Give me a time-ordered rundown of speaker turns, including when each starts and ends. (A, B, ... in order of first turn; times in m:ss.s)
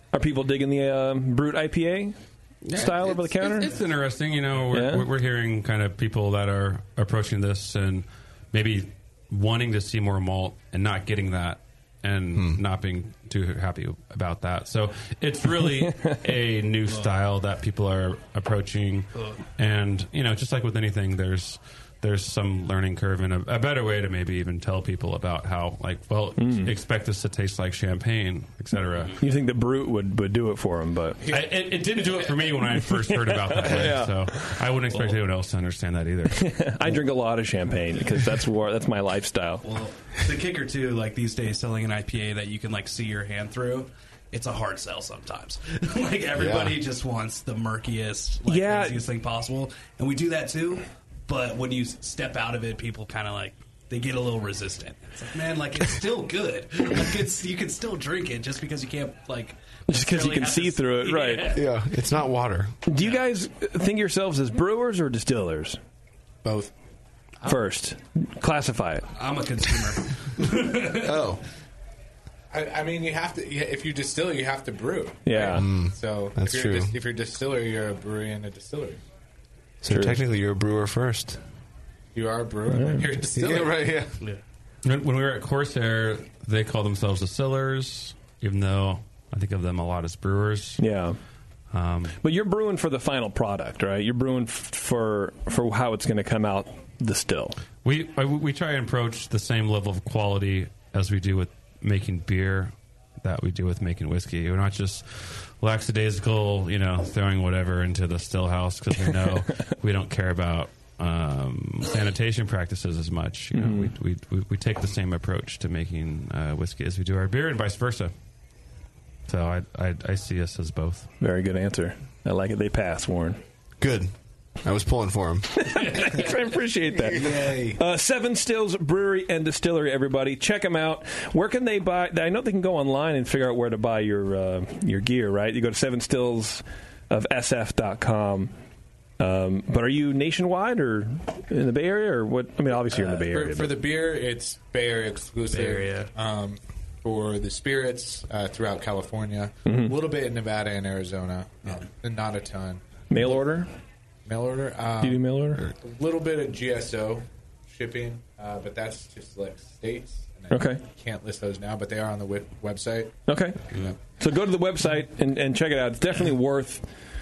0:00.1-0:02.2 A
0:02.6-0:29.2 B
0:02.7-0:03.7 A
0:04.7-0:05.1 A
0:15.9-0:16.2 A
0:26.4-0:26.7 A
0:29.2-0:31.2 A
0:31.2-0:31.5 C
0:31.2-0:36.6 B
0:33.0-0:34.6 A
0:36.3-0:39.6 A
0:39.6-1:01.7 D
0:46.3-0:46.8 E
0:48.5-0:49.0 A
0:59.9-1:01.6 A
1:01.5-1:02.7 E
1:02.8-1:05.8 A
1:06.4-1:06.7 C
1:07.4-1:09.1 A
1:09.2-1:11.3 D
1:11.0-1:11.4 E
1:12.5-1:19.0 C
1:15.2-1:15.6 A
1:15.5-1:16.9 E
1:19.8-1:21.4 E
1:19.9-1:20.2 A
1:22.1-1:23.9 C
1:22.7-1:23.1 A
1:23.3-1:24.2 E
1:24.8-1:30.8 B
1:30.8-1:31.2 A
1:31.7-1:32.2 B
1:32.2-1:37.6 A
1:37.8-1:58.1 B
1:53.5-1:53.9 A
1:59.3-2:01.1 B
2:01.2-2:03.4 A
2:03.8-2:05.8 E
2:05.5-2:18.5 A
2:07.1-2:07.8 C
2:19.2-2:23.8 A
2:23.0-2:32.8 C
2:25.5-2:26.1 D
2:29.6-2:29.9 A
2:33.1-2:33.7 A
2:34.2-2:43.2 C
2:35.0-2:35.7 A
2:40.5-2:40.8 A
2:43.3-2:46.8 A
2:43.7-2:44.0 C